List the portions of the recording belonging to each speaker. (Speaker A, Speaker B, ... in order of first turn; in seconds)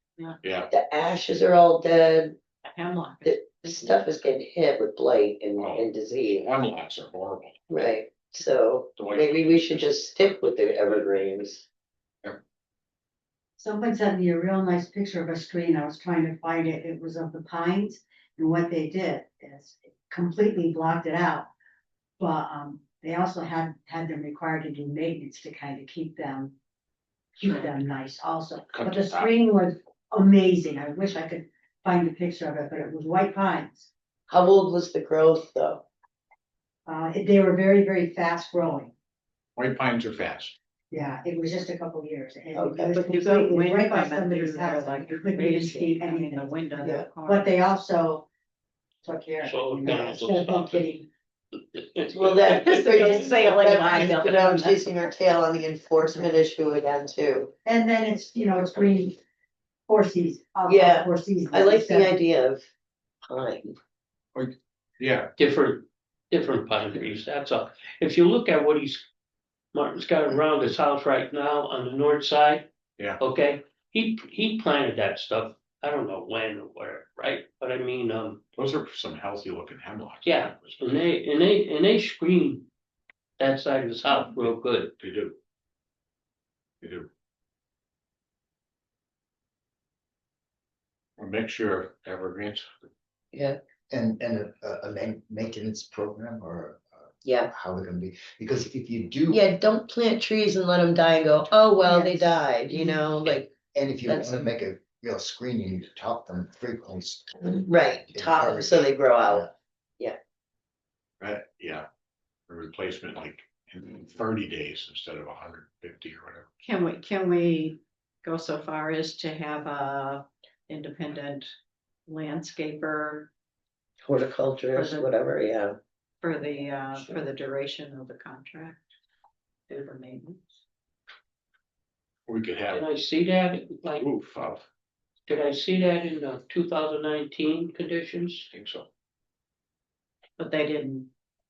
Speaker A: 0.4-0.7, 5.6-7.6, 9.0-10.8, 28.7-29.3, 39.6-40.5, 64.3-65.3, 78.6-81.1, 85.0-85.4, 86.8-87.1, 91.2-92.7, 111.2-111.9, 112.5-116.5, 132.3-132.9, 133.9-134.6, 138.5-138.9
Speaker B: 0.7-2.4, 3.2-6.5, 7.7-11.7, 34.3-35.8, 42.5-43.0, 46.8-47.1, 52.1-57.5, 60.7-62.7, 63.3-63.7, 93.3-93.6, 97.2-97.5, 99.3-103.5, 104.1-104.5, 107.5-109.5, 124.0-125.8
Speaker C: 2.6-4.0, 27.4-27.8, 42.9-47.5, 52.5-55.1, 116.6-121.5, 122.1-123.3, 124.7-125.2, 126.2-128.8, 129.7-130.6, 140.4-141.1
Speaker D: 13.6-21.5, 22.2-26.5, 27.4-33.9, 36.9-38.9, 40.9-48.3, 49.0-51.1, 57.6-59.2, 59.9-62.1, 101.8-103.1
Speaker E: 49.4-50.9, 51.8-52.8, 65.4-69.1, 69.7-78.4, 80.2-82.7, 83.4-84.9, 132.7-134.1, 135.3-138.5
Speaker F: 93.9-99.4, 103.5-109.5